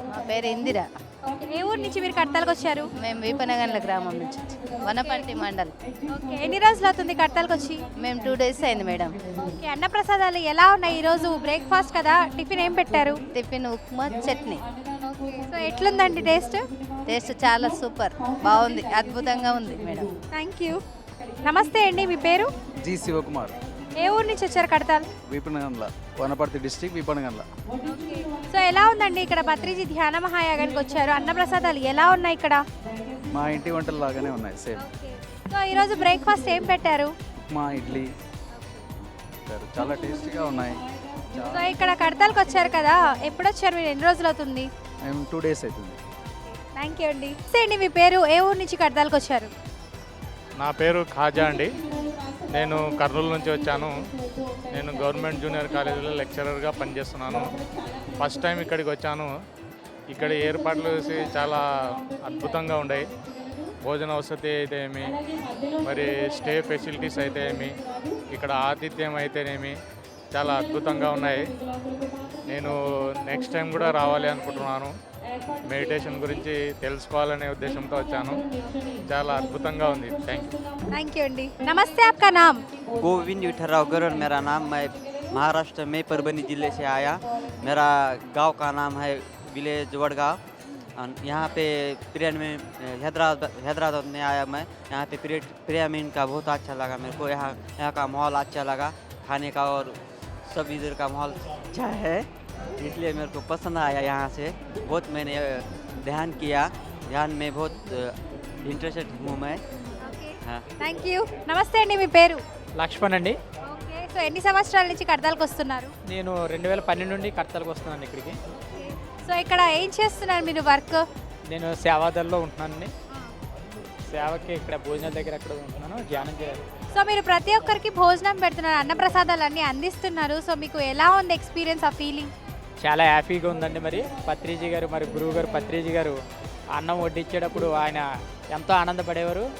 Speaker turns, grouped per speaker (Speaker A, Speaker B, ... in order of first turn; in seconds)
Speaker A: 0.2-0.9, 3.0-5.7, 8.0-9.2, 13.3-14.6, 17.1-20.1
Speaker B: 1.4-2.9, 4.9-5.5, 6.1-7.8, 9.4-13.2, 15.0-16.6, 20.3-20.8, 21.4-22.5, 24.0-25.1, 27.8-32.6, 34.8-37.1, 38.5-38.8, 41.5-44.7, 46.3-49.5, 80.9-82.6, 110.0-112.4, 113.7-115.9, 118.5-121.0, 126.9-132.3
Speaker C: 22.8-23.5, 25.3-27.4, 33.3-34.8, 37.4-38.1, 39.0-41.8, 45.0-46.0
Speaker D: 50.6-51.8, 52.5-53.9, 54.7-57.4, 58.2-59.3, 60.1-61.6, 62.1-63.0, 63.8-65.2, 65.8-67.7, 68.3-69.7, 70.3-71.4, 72.5-74.9, 75.7-78.4, 79.1-80.5
Speaker E: 83.0-90.4, 91.0-102.3, 102.8-108.1, 108.7-109.6
Speaker F: 112.8-113.3, 116.1-118.3, 121.5-122.9, 124.1-126.6, 132.8-136.2, 136.7-139.4